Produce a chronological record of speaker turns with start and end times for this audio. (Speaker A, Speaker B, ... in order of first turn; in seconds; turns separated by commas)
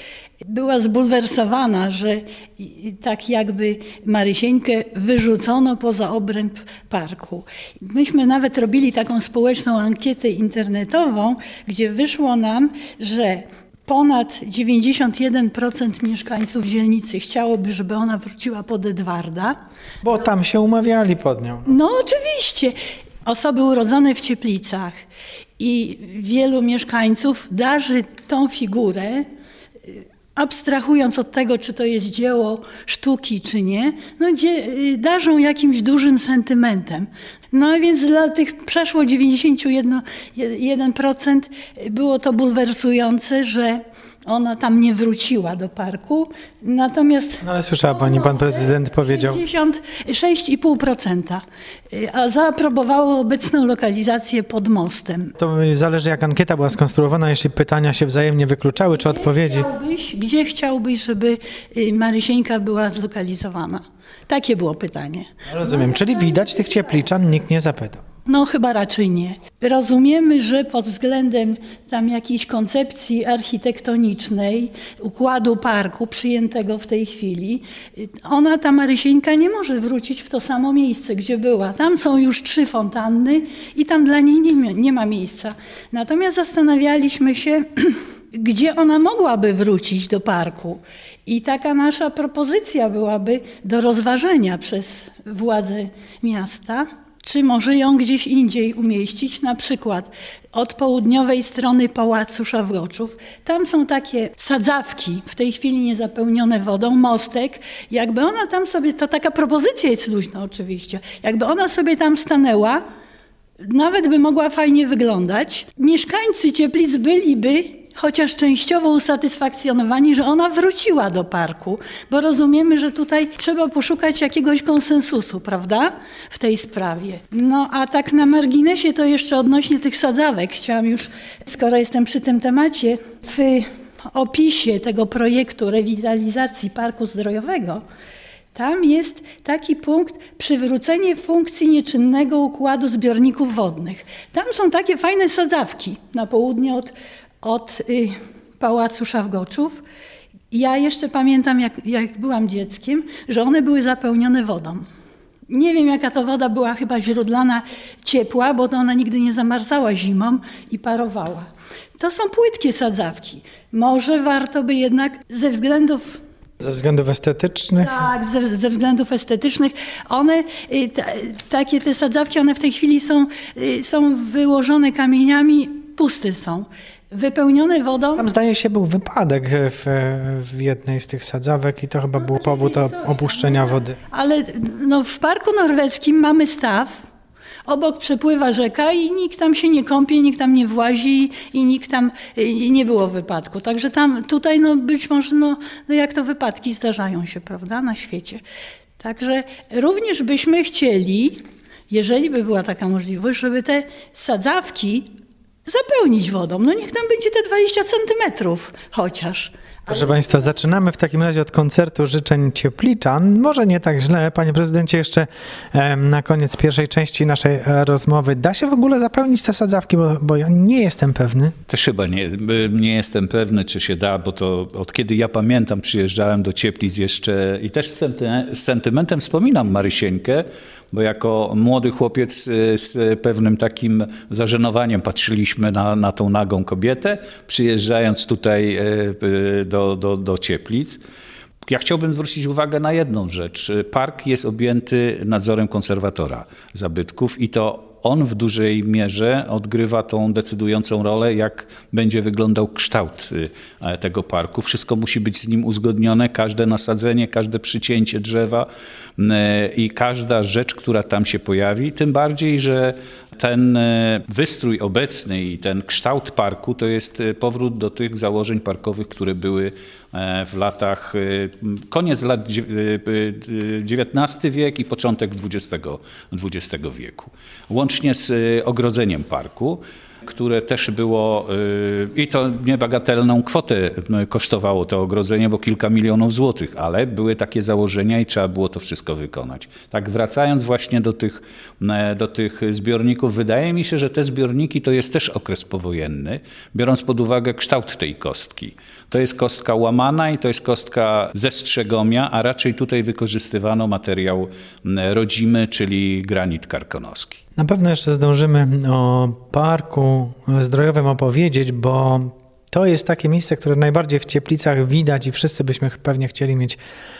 Speaker A: 0.4-19.5, Speaker B: 20.0-21.7, Speaker A: 21.6-24.9, Speaker A: 25.6-29.2, Speaker A: 29.9-55.3, Speaker B: 47.4-49.4, Speaker B: 55.4-59.7, Speaker A: 58.9-66.9, Speaker B: 65.5-68.0, Speaker A: 68.2-112.8, Speaker A: 113.6-137.8, Speaker A: 138.5-149.8, Speaker A: 150.5-154.8, Speaker A: 155.5-161.4, Speaker A: 162.0-166.2, Speaker B: 166.6-168.1, Speaker A: 167.8-178.3, Speaker B: 178.2-184.0, Speaker A: 182.2-187.0, Speaker A: 187.7-198.4, Speaker A: 199.0-205.1, Speaker A: 205.7-210.7, Speaker B: 209.9-221.5, Speaker C: 221.7-241.0, Speaker C: 241.7-258.7, Speaker C: 259.2-307.4, Speaker B: 307.6-316.8